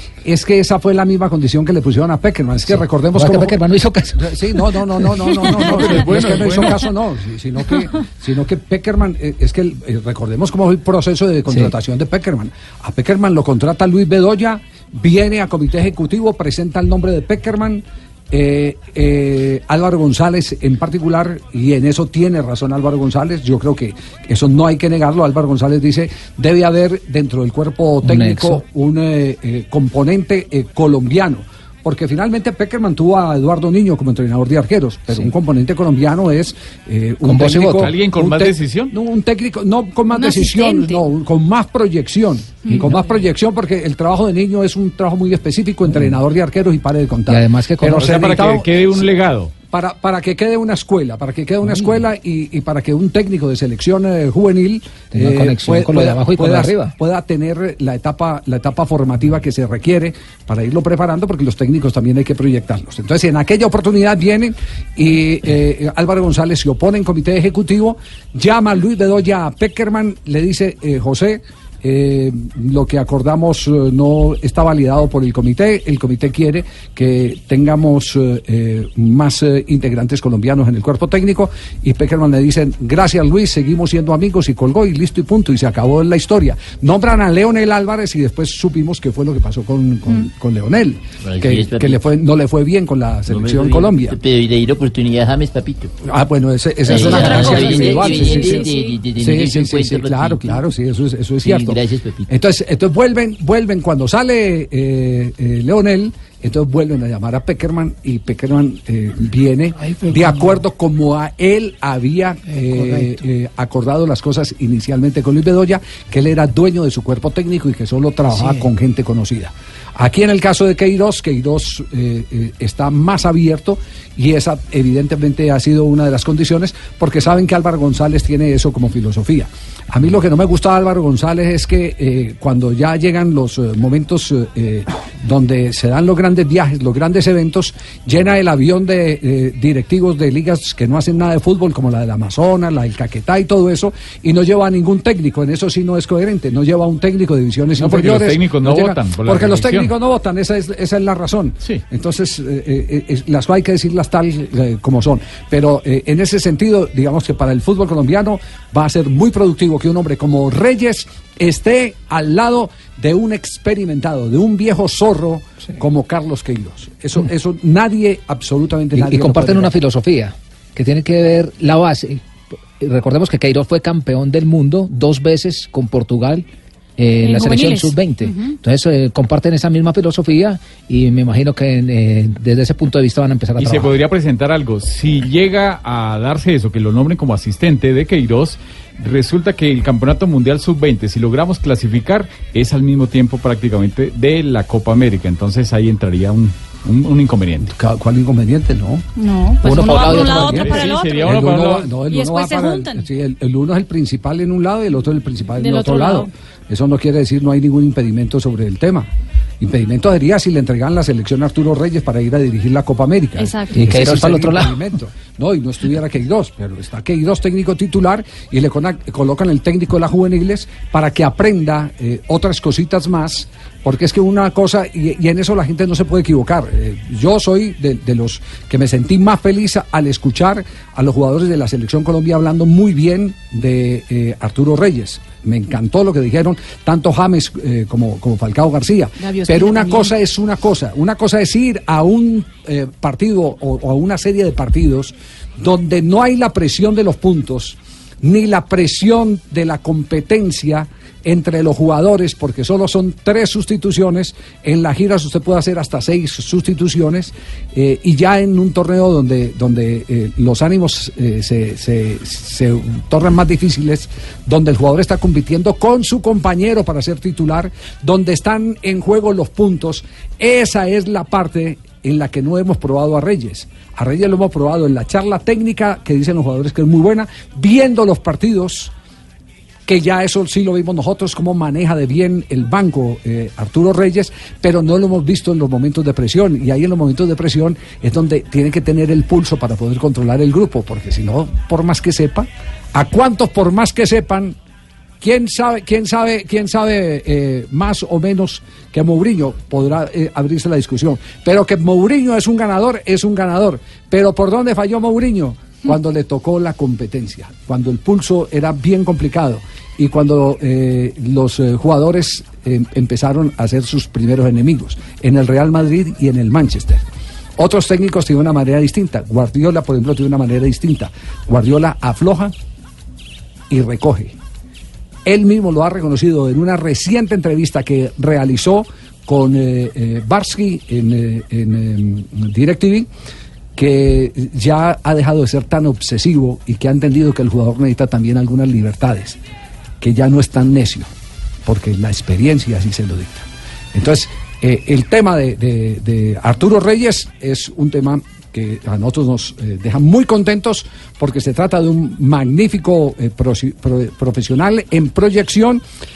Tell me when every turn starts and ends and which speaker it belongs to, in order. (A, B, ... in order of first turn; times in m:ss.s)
0:00.2-0:03.6 A
0:02.7-0:04.2 B
0:04.1-0:49.0 A
0:05.6-0:06.8 C
0:11.5-0:11.7 B
0:28.0-0:28.6 B
0:37.2-0:37.9 B
0:37.8-0:38.9 C
0:40.1-0:41.0 D
0:45.9-0:46.1 B
0:47.3-0:48.1 B
0:47.9-0:49.5 C
0:49.7-1:34.2 A
0:51.6-0:52.0 B
0:55.1-0:56.9 B
1:31.2-1:32.0 E
1:33.3-1:35.9 E
1:36.0-2:49.7 A
1:36.8-1:40.6 E
1:37.0-1:39.0 D
1:41.4-1:42.3 E
2:27.8-2:29.9 C
2:48.9-2:52.2 B
2:52.8-2:56.4 B
2:57.0-3:03.9 B
2:57.2-2:58.6 D
3:03.6-3:17.7 C
3:17.6-3:19.0 A
3:19.2-3:21.3 D
3:19.6-3:29.1 A
3:20.5-3:21.9 C
3:22.1-3:23.1 D
3:25.6-3:26.3 D
3:29.6-4:38.9 A
3:33.4-3:33.9 D
3:33.7-3:34.8 B
3:59.2-4:00.0 D
4:39.8-4:54.6 A
4:55.2-5:17.0 A
5:17.6-5:22.5 A
5:23.7-5:24.3 A
5:25.2-5:33.1 A
5:33.8-5:39.4 A
5:40.0-5:41.1 A
5:41.6-5:55.8 A